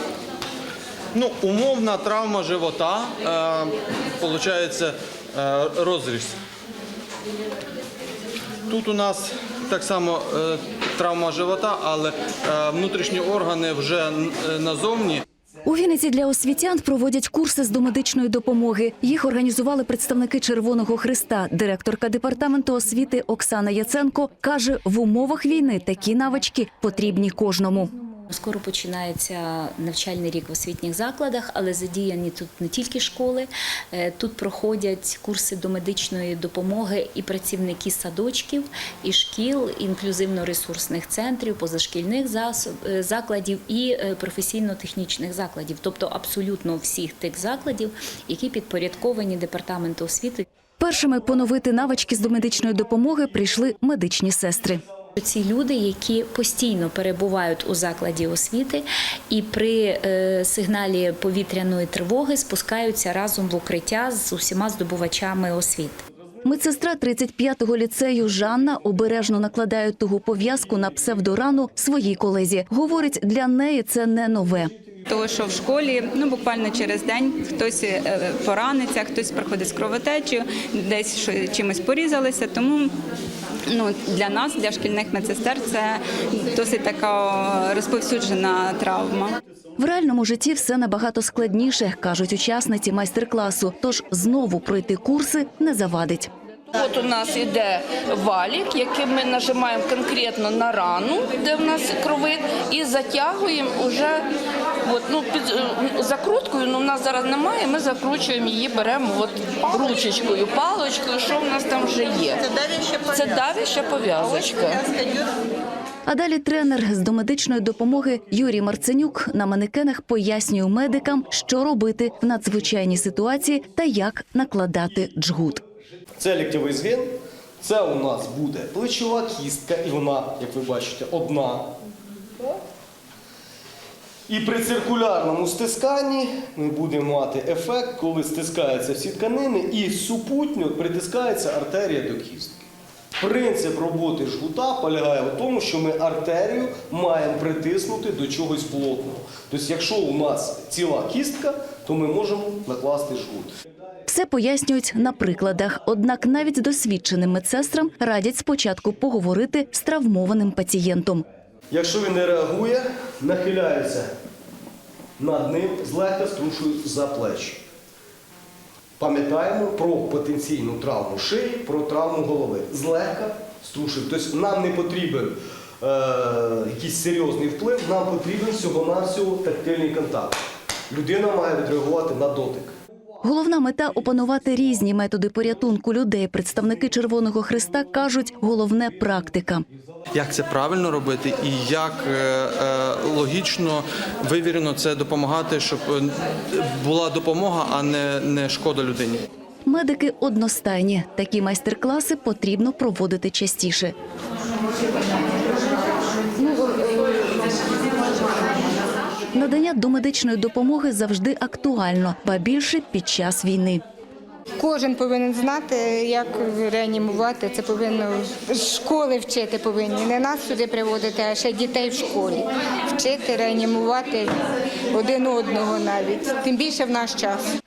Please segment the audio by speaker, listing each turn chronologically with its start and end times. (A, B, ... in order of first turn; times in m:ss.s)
0:01.1-0:06.4 A
0:08.7-0:15.2 A
0:15.6-0:27.9 B
0:28.3-0:50.4 C
0:50.8-0:54.8 B
0:55.2-1:06.0 C
1:06.4-1:14.7 B
1:15.1-1:22.9 D
1:23.7-1:29.4 D
1:29.8-1:36.3 B
1:36.7-1:44.2 E
1:44.8-1:55.0 E
1:56.0-2:05.6 B
2:06.2-2:11.8 F
2:14.3-2:22.7 F
2:23.2-2:33.5 F
2:34.1-2:41.2 B
2:41.7-2:44.1 F
2:45.2-2:47.7 F
2:49.0-3:02.8 F
3:03.2-3:09.6 B
3:10.1-3:19.2 A
3:19.7-3:23.9 B
3:26.4-3:27.4 G
3:29.3-3:33.8 B
3:34.6-3:44.3 G
3:44.9-3:47.4 G